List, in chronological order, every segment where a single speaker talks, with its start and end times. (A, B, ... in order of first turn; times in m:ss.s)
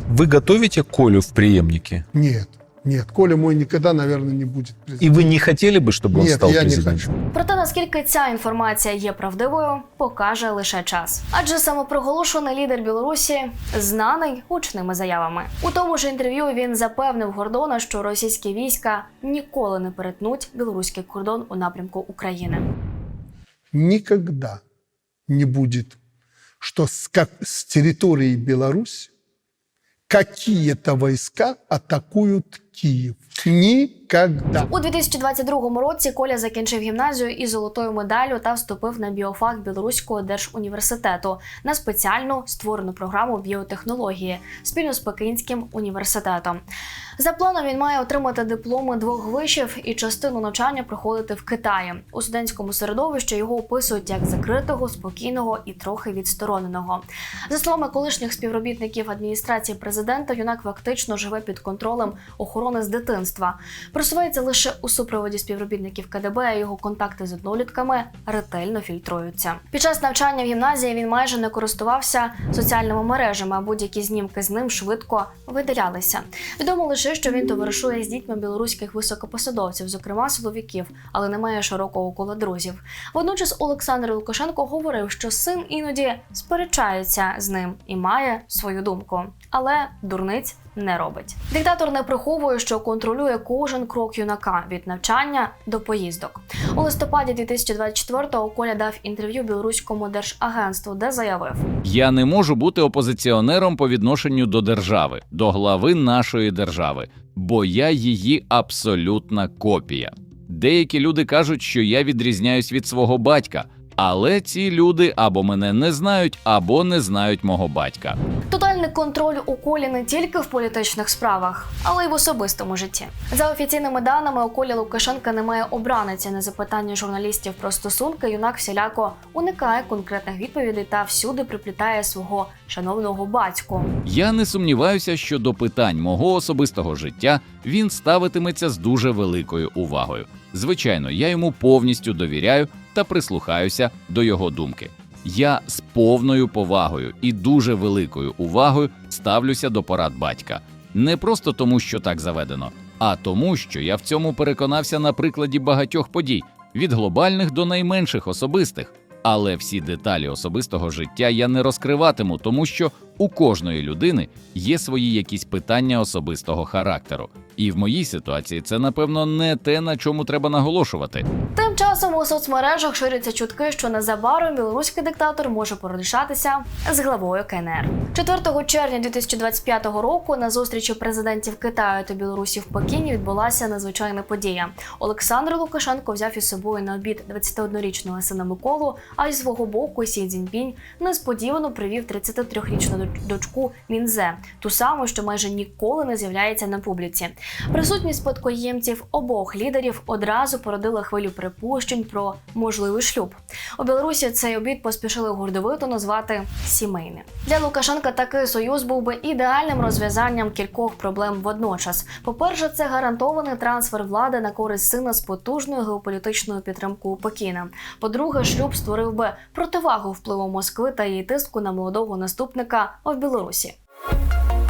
0:00.1-0:02.0 A
0:02.1-0:05.2 B
0:05.0-0:07.0 A
0:06.1-0:07.1 B
0:07.3-0:22.6 C
0:23.7-0:24.6 B
0:25.3-0:26.0 B
0:26.6-0:29.1 B
0:30.1-0:34.7 B
0:34.7-0:46.6 C
0:47.2-1:41.6 C
1:41.8-1:58.2 D
1:58.5-2:13.9 C
2:14.0-2:51.2 D
2:51.6-3:43.8 C